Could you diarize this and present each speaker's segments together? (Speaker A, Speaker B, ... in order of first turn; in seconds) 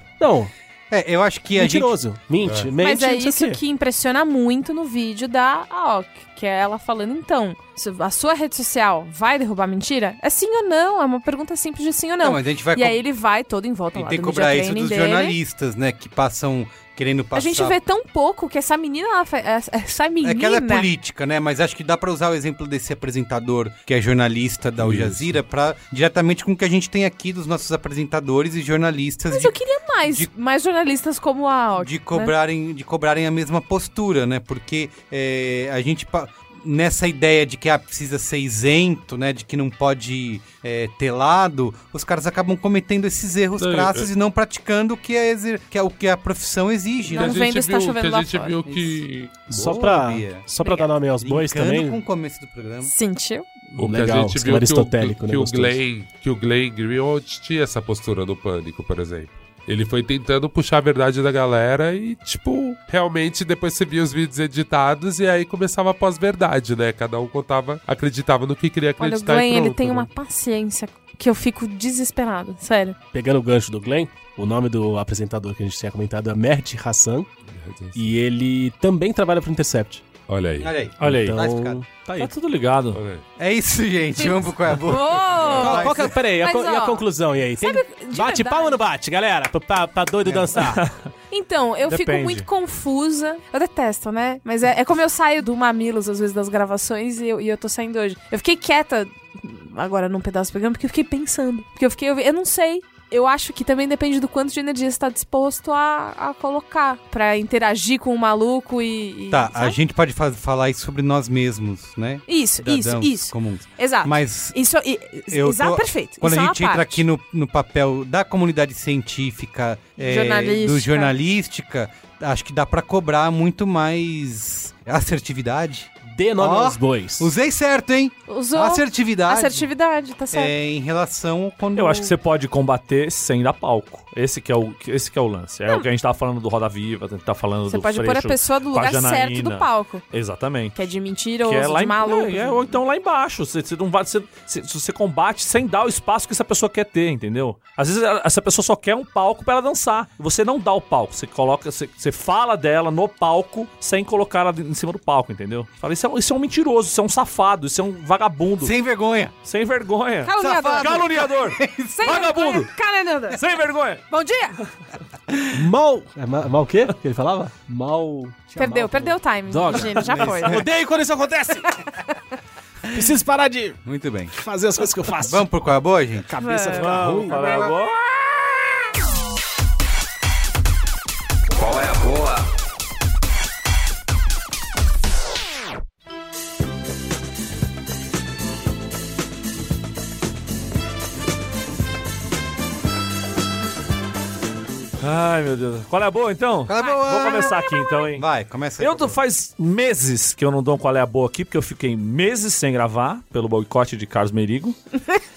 Speaker A: 0.2-0.5, 1.5-3.6, 49.5-52.0, 53.8-55.8, 73.1-77.3, 77.9-80.0, 81.0-82.3, 85.5-90.9, 126.0-127.3, 165.5-171.8, 172.9-173.8, 174.3-175.5, 176.3-177.4
Speaker B: 0.9-1.9, 12.2-13.0, 13.9-17.8, 20.2-29.5, 31.8-47.5, 48.6-49.0, 49.5-50.5, 51.2-52.9, 80.6-81.8, 83.4-86.1, 90.2-90.6, 109.3-114.6, 115.3-129.7, 130.3-132.1, 158.6-159.3, 160.4-162.7, 169.9-170.6, 173.8-174.3, 175.2-176.3, 177.3-177.7, 196.7-199.2
Speaker C: 2.4-2.7, 24.8-25.4, 43.6-44.1, 47.1-49.9, 53.7-70.1, 77.5-78.1, 80.3-80.7, 82.9-83.2
Speaker D: 2.8-15.3, 17.3-20.9, 29.3-32.3, 47.1-48.6, 52.8-53.4, 69.0-73.0, 84.2-87.0, 87.6-88.8, 91.3-109.8, 112.3-117.0, 120.0-121.1, 128.3-130.5, 137.7-140.0, 140.7-142.7, 160.2-161.1, 162.0-163.4, 164.1-164.6, 168.6-170.6, 176.3-177.5
Speaker E: 81.0-81.4, 82.2-83.0, 90.7-91.1, 91.8-92.5, 131.7-140.8, 141.4-158.7, 159.4-162.7, 163.3-164.0, 176.7-178.0, 195.0-198.2, 198.8-204.8